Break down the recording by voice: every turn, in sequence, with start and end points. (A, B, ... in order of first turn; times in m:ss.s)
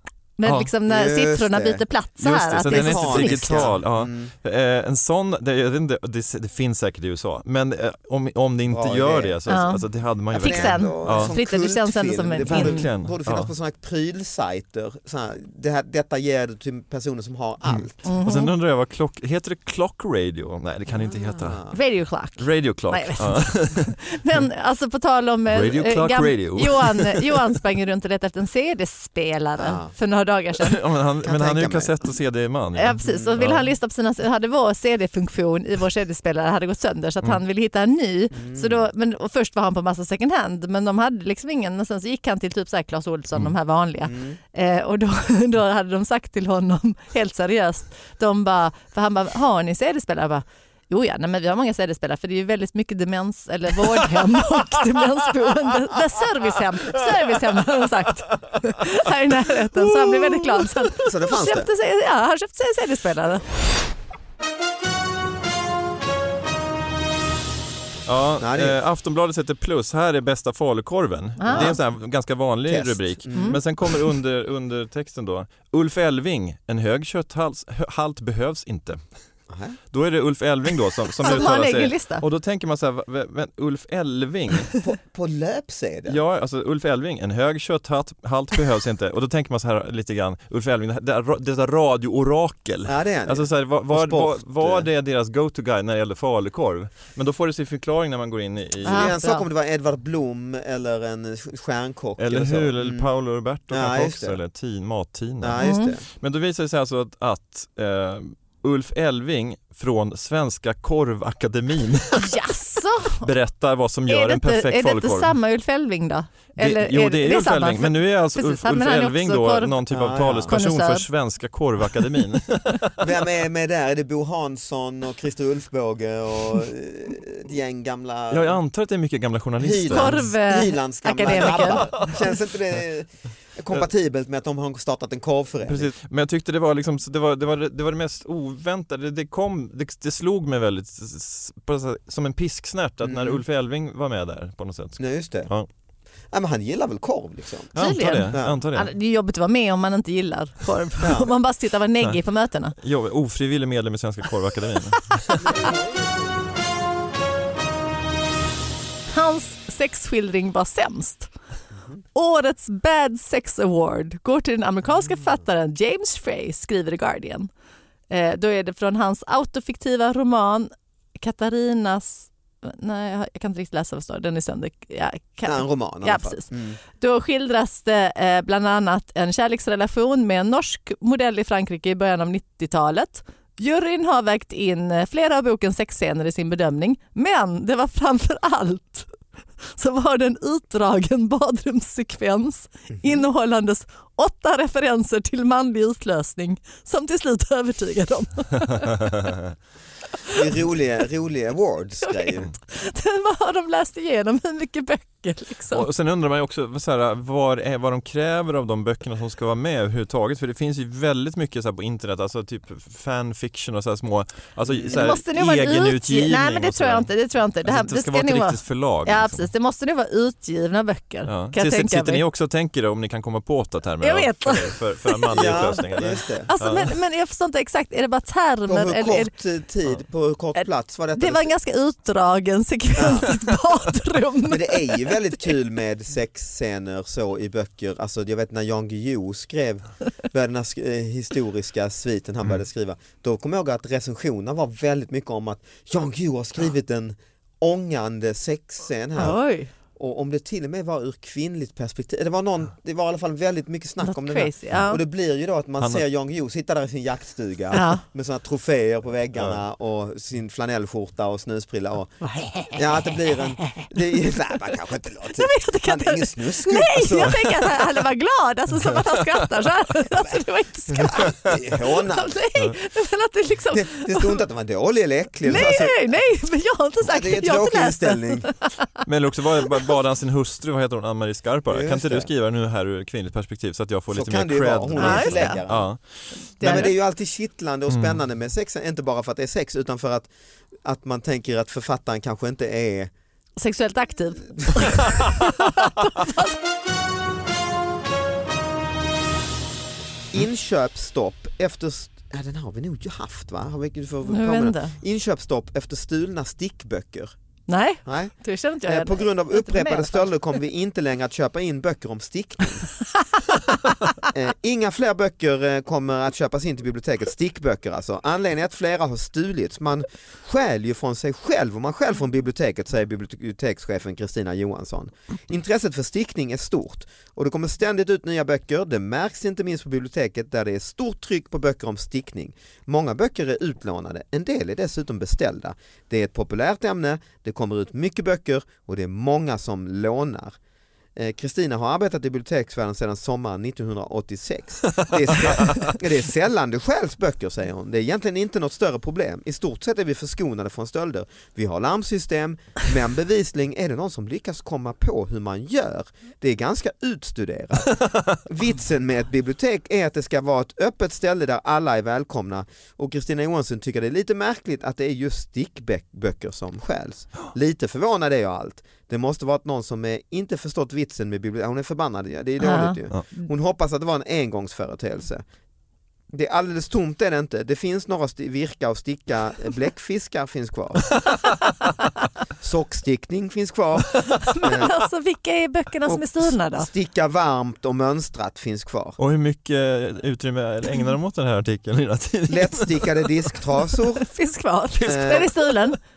0:00.4-0:03.7 A
0:00.4-0:00.7 B
0:00.8-0:01.8 C
0:02.2-0:11.3 B
0:02.6-0:04.3 C
0:08.7-0:09.4 C
0:09.5-0:12.9 A
0:10.3-0:18.0 C
0:12.4-0:13.5 B
0:17.6-0:21.6 B
0:18.0-0:18.5 A
0:21.0-0:21.7 C
0:21.7-0:30.8 A
0:22.4-0:24.0 B
0:25.5-0:27.4 B
0:29.6-0:29.9 C
0:30.6-0:33.7 B
0:31.2-0:31.9 C
0:32.7-1:03.4 A
0:33.0-0:33.4 C
0:38.3-0:38.8 C
0:44.0-0:44.4 C
1:00.9-1:01.7 C
1:08.0-1:19.0 B
1:08.4-1:08.8 C
1:11.4-1:11.8 A
1:11.5-1:11.8 C
1:12.7-1:13.6 C
1:13.3-1:13.6 A
1:19.5-1:19.8 C
1:19.9-1:24.7 B
1:21.2-1:22.2 A
1:24.8-1:26.2 C
1:26.1-1:39.1 B
1:32.8-1:34.9 C
1:38.8-1:43.1 C
1:38.8-1:39.4 A
1:42.2-1:52.4 B
1:43.7-1:44.4 C
1:45.4-1:46.0 C
1:45.6-1:45.9 A
1:52.2-1:53.3 A
1:53.1-1:55.3 B
1:54.1-1:59.8 A
1:56.6-2:03.1 B
1:59.9-2:00.5 C
2:00.4-2:01.0 A
2:03.0-2:08.6 C
2:08.3-2:10.3 B
2:09.6-2:15.9 C
2:09.9-2:12.2 A
2:11.8-2:12.1 B
2:15.6-2:25.7 B
2:23.0-2:23.4 C
2:25.0-2:25.5 C
2:26.3-2:27.8 C
2:27.7-2:28.9 B
2:27.8-2:32.7 A
2:28.3-2:28.6 C
2:31.0-2:31.3 C
2:32.7-2:35.6 B
2:35.4-2:36.5 C
2:39.1-2:41.3 A
2:42.1-2:47.5 A
2:48.1-3:09.1 A
2:55.4-2:56.8 C
3:09.7-3:19.1 A
3:12.9-3:13.2 C
3:19.0-3:19.4 B
3:20.3-3:22.5 C
3:22.0-3:25.8 A
3:25.7-3:37.1 B
3:34.6-3:35.1 C
3:34.9-3:42.2 A
3:37.6-3:39.5 B
3:41.2-3:46.9 B
3:44.0-3:45.6 A
3:45.3-3:46.5 C
3:46.5-3:49.3 A
3:48.7-3:51.5 C
3:51.1-3:55.4 A
3:52.9-3:53.3 C
3:54.4-4:09.4 C
4:09.2-4:09.7 A
4:10.0-4:22.2 C
4:14.0-4:15.0 A
4:17.7-4:18.0 A
4:19.4-4:19.6 B
4:22.7-4:27.6 C
4:25.4-4:34.4 A
4:30.9-4:32.4 C
4:33.7-4:36.0 C
4:35.4-4:38.8 A
4:37.0-4:38.5 C
4:39.0-4:46.0 B
4:41.7-4:42.3 C
4:44.1-4:45.9 C
4:45.0-4:45.6 A
4:46.6-4:46.9 A
4:46.6-4:50.3 C
4:47.9-4:48.2 B
4:50.8-4:53.1 C
4:53.6-4:56.5 A
4:54.5-4:55.1 C
5:00.3-5:07.3 C
5:04.2-5:04.9 A
5:07.7-5:10.3 A
5:08.0-5:08.3 C
5:08.8-5:12.9 C
5:13.2-5:14.2 A
5:14.3-5:40.6 C
5:41.2-6:15.4 C
5:45.0-5:45.9 B
6:12.6-6:13.5 A
6:16.3-6:21.2 C
6:22.6-6:24.9 C
6:24.4-6:26.9 A
6:26.0-6:29.2 C
6:29.2-6:33.4 B
6:32.5-6:34.3 C
6:34.2-6:36.0 A
6:35.0-6:35.5 C